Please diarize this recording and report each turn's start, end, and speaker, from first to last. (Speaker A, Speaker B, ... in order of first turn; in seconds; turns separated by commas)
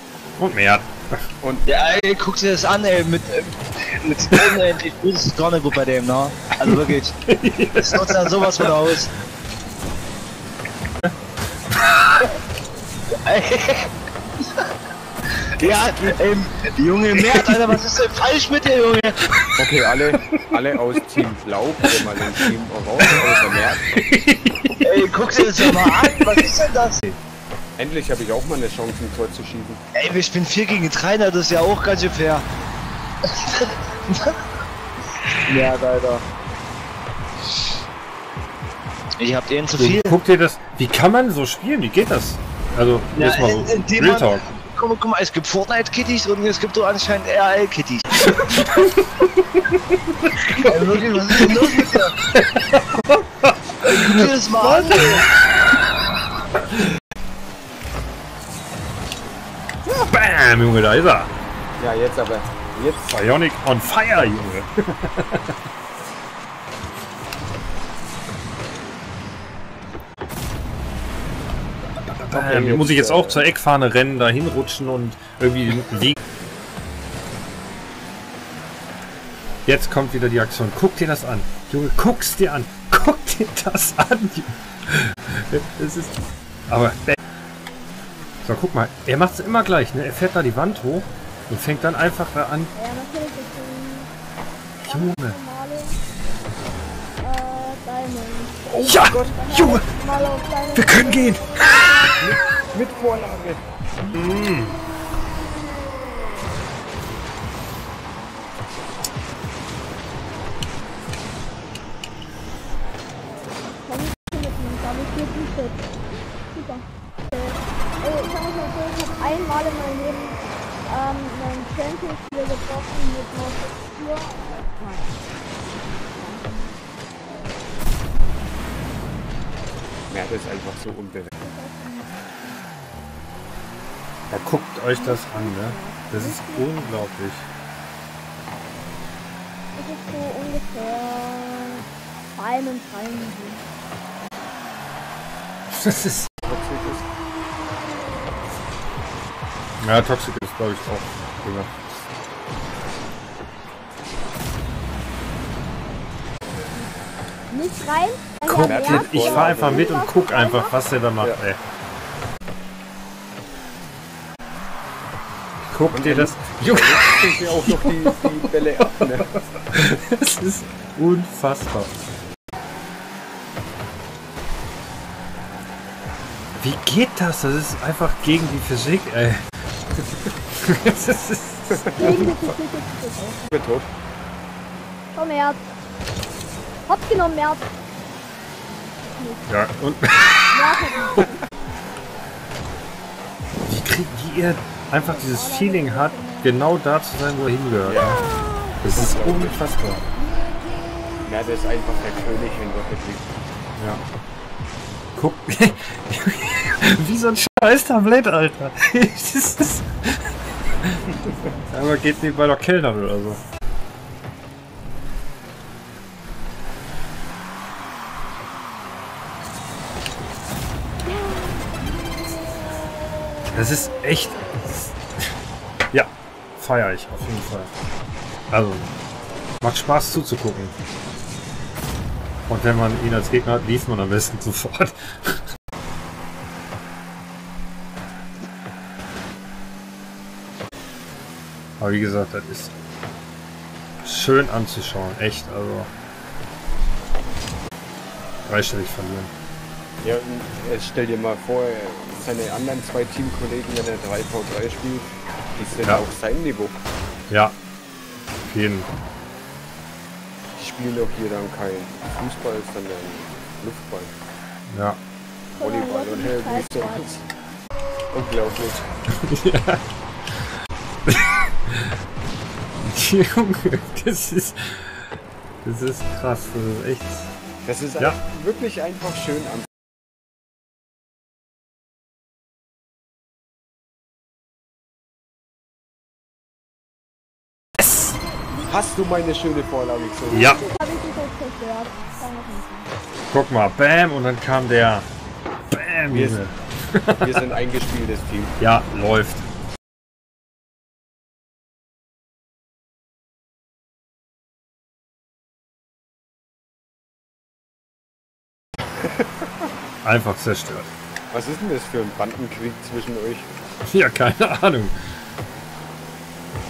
Speaker A: 0.4-1.2, Speaker B: 1.4-1.7, Speaker C: 1.6-7.2, Speaker A: 6.7-8.6, Speaker C: 7.8-9.1, Speaker C: 13.3-13.9, Speaker C: 15.6-19.2, Speaker B: 15.6-16.1, Speaker A: 17.2-17.5, Speaker B: 19.6-23.8, Speaker A: 20.2-20.5, Speaker A: 21.9-22.5, Speaker A: 23.9-26.4, Speaker C: 24.8-27.1, Speaker B: 27.8-29.8, Speaker C: 29.9-32.4, Speaker C: 33.4-34.3, Speaker C: 35.5-36.2, Speaker C: 39.2-40.1, Speaker A: 39.8-44.4, Speaker C: 43.1-48.4, Speaker A: 48.2-50.7, Speaker C: 50.5-52.1, Speaker A: 52.3-55.4, Speaker C: 53.8-55.2, Speaker A: 59.8-61.3, Speaker B: 61.8-63.1, Speaker A: 63.1-65.5, Speaker A: 72.0-76.2, Speaker B: 72.3-73.4, Speaker A: 79.7-86.2, Speaker A: 86.7-87.2, Speaker A: 88.4-92.7, Speaker D: 92.7-94.1, Speaker D: 94.8-96.0, Speaker A: 94.8-95.4, Speaker D: 97.2-102.1, Speaker A: 98.7-99.9, Speaker A: 100.7-102.3, Speaker B: 102.2-103.6, Speaker A: 104.0-104.8, Speaker D: 113.8-115.9, Speaker D: 116.5-125.1, Speaker D: 125.9-126.7, Speaker B: 130.1-131.3, Speaker D: 131.4-132.5, Speaker A: 134.3-137.5, Speaker D: 134.9-136.9, Speaker D: 139.8-141.8, Speaker D: 142.3-143.6, Speaker A: 145.7-146.3, Speaker B: 146.4-147.0, Speaker A: 149.8-151.7, Speaker D: 157.5-160.8, Speaker A: 158.4-161.6, Speaker B: 158.6-159.9, Speaker A: 165.6-171.9, Speaker B: 165.9-169.3, Speaker A: 176.6-179.4, Speaker A: 180.6-182.3, Speaker B: 181.7-182.3, Speaker D: 182.0-183.6, Speaker B: 183.5-183.9, Speaker D: 185.1-185.6, Speaker D: 186.9-187.6, Speaker D: 189.1-189.5, Speaker A: 189.5-190.6, Speaker D: 190.5-191.4, Speaker A: 193.7-198.2, Speaker D: 194.9-196.6, Speaker B: 197.8-198.3, Speaker D: 198.0-198.7, Speaker A: 198.8-200.0, Speaker B: 198.9-199.6, Speaker B: 201.2-203.3, Speaker A: 203.8-204.0, Speaker A: 205.1-210.2, Speaker A: 211.7-213.4, Speaker A: 223.5-224.9, Speaker A: 225.9-227.7, Speaker A: 228.5-228.9, Speaker A: 229.6-230.7, Speaker A: 232.5-235.4, Speaker A: 241.8-242.7, Speaker A: 244.0-245.9, Speaker A: 248.4-249.3, Speaker B: 250.0-256.8, Speaker A: 258.4-258.9, Speaker B: 260.6-264.1, Speaker A: 264.7-265.0, Speaker D: 265.6-267.1, Speaker B: 265.6-267.2, Speaker B: 268.1-268.9, Speaker A: 269.2-270.4, Speaker A: 271.1-271.8, Speaker A: 272.8-275.1, Speaker A: 275.6-277.3, Speaker B: 277.6-279.7, Speaker B: 288.7-290.5, Speaker D: 290.3-292.9, Speaker A: 290.3-290.6, Speaker A: 293.3-295.1, Speaker A: 295.7-297.5, Speaker B: 296.1-296.4, Speaker B: 297.2-298.6, Speaker A: 298.6-299.4, Speaker A: 310.0-310.9, Speaker B: 311.3-313.5, Speaker A: 313.9-314.9